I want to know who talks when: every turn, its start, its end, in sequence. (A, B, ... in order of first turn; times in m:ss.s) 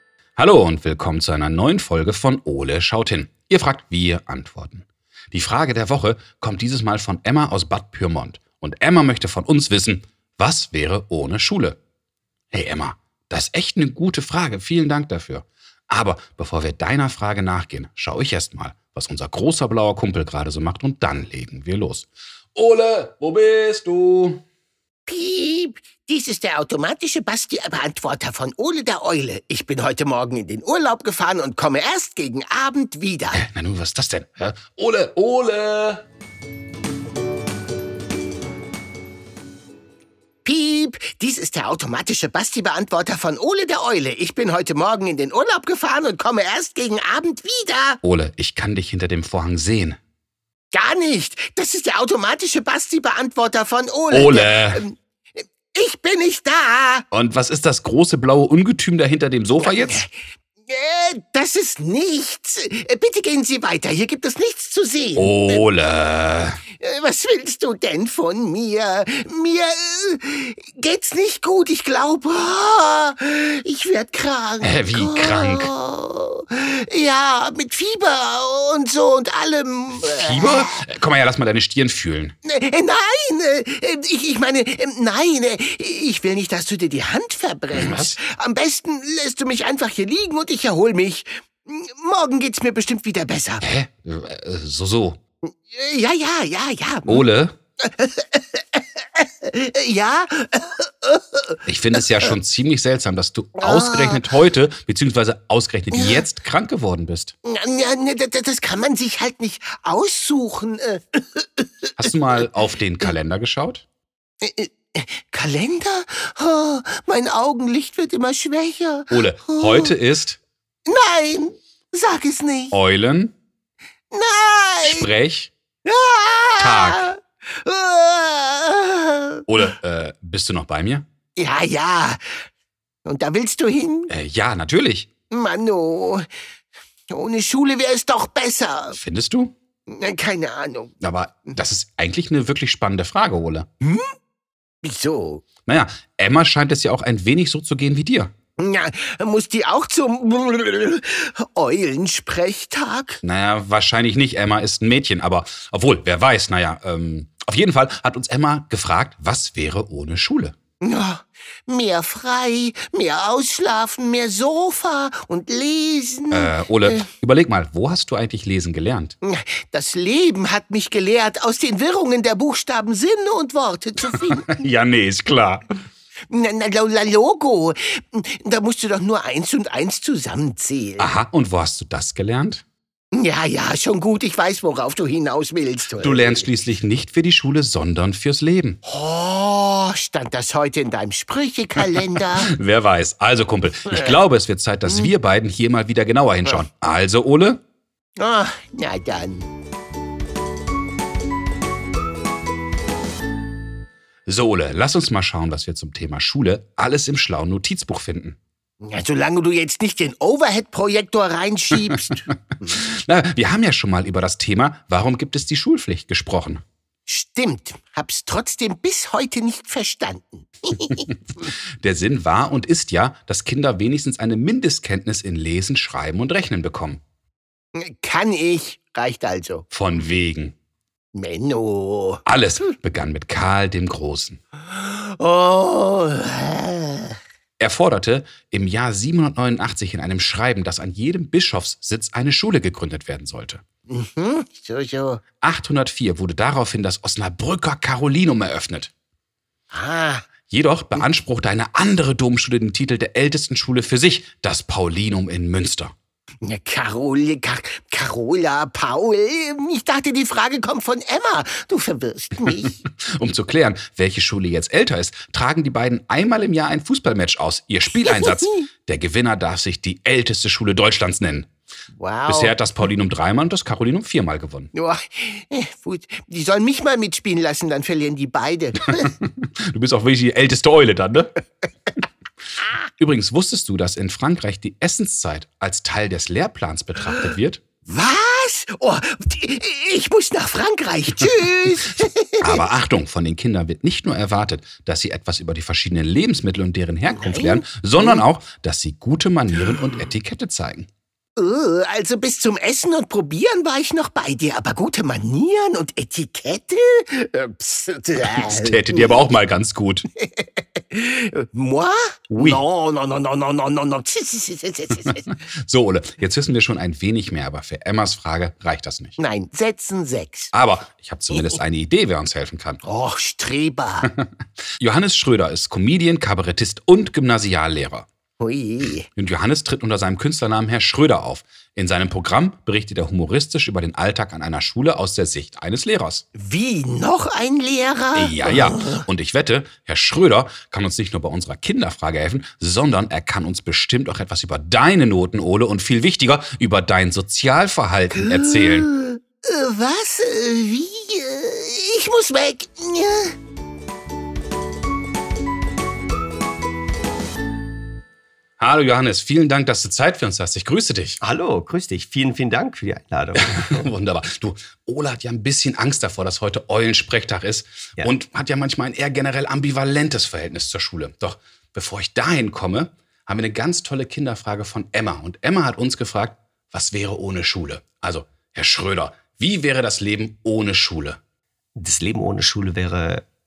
0:00.4-0:11.8 A
0:12.5-0:24.4 A
0:25.1-0:33.4 B
0:33.3-0:36.0 A
0:40.4-0:48.0 B
0:48.0-0:50.0 A
0:50.7-0:57.1 B
0:54.1-0:54.8 A
0:57.1-1:00.0 A
0:59.6-1:00.1 B
1:00.7-1:05.6 B
1:05.2-1:06.6 A
1:06.7-1:20.8 B
1:14.6-1:15.7 A
1:20.0-1:22.3 A
1:22.4-1:33.6 B
1:27.7-1:28.2 A
1:33.6-1:35.2 A
1:35.4-1:37.2 B
1:37.1-1:37.6 A
1:37.8-1:42.3 B
1:41.6-1:47.3 A
1:43.6-1:44.2 B
1:45.9-1:46.2 B
1:47.4-1:52.1 B
1:52.0-1:53.8 A
1:54.4-1:59.9 B
1:59.1-2:00.4 A
2:00.9-2:02.8 B
2:02.7-2:03.3 A
2:04.1-2:05.1 B
2:04.8-2:05.5 A
2:05.8-2:09.4 B
2:06.6-2:07.1 A
2:09.5-2:11.0 A
2:11.4-2:12.4 B
2:13.0-2:14.1 B
2:14.1-2:15.1 A
2:15.3-2:16.3 B
2:17.1-2:19.0 B
2:18.9-2:19.5 A
2:19.9-2:20.9 B
2:21.0-2:23.7 A
2:23.8-2:24.1 B
2:24.8-2:25.4 B
2:25.6-2:28.3 A
2:28.6-2:33.2 B
2:33.2-2:40.6 A
2:40.8-2:47.1 B
2:46.3-2:49.2 A
2:49.2-2:54.6 B
2:54.1-2:55.7 A
2:56.3-3:01.1 B
3:01.0-3:02.6 A
3:03.1-3:06.4 B
3:06.0-3:08.8 A
3:08.8-3:12.5 B
3:12.5-3:17.6 A
3:18.2-3:19.5 B
3:24.2-3:28.4 A
3:28.8-3:32.8 B
3:31.8-3:36.6 A
3:37.1-3:41.1 B
3:41.4-3:47.0 A
3:47.8-3:49.6 B
3:49.7-3:50.5 A
3:51.1-3:52.2 B
3:52.2-3:54.4 A
3:54.6-3:57.2 B
3:57.6-4:03.6 A
4:03.9-4:05.2 B
4:05.4-4:08.9 A
4:09.7-4:10.2 B
4:10.5-4:15.9 A
4:16.4-4:22.8 B
4:23.0-4:31.5 A
4:28.0-4:28.7 B
4:31.9-4:32.5 B
4:32.3-4:34.7 A
4:34.7-4:39.1 B
4:38.9-4:41.4 A
4:43.0-4:47.6 A
4:47.9-4:52.6 B
4:52.4-5:00.9 A
4:57.1-4:58.2 B
5:01.4-5:09.1 B
5:08.2-5:10.1 A
5:10.2-5:15.3 B
5:12.3-5:12.6 A
5:15.1-5:19.2 A
5:19.2-5:20.5 B
5:20.5-5:22.8 A
5:21.3-5:21.6 B
5:22.8-5:24.1 B
5:24.8-5:28.1 A
5:28.4-5:29.1 B
5:29.2-5:36.2 A
5:36.3-5:39.0 B
5:38.1-5:48.9 A
5:48.2-5:53.3 B
5:58.6-6:01.2 A
6:01.2-6:03.9 C
6:03.4-6:21.2 A
6:21.8-6:23.2 C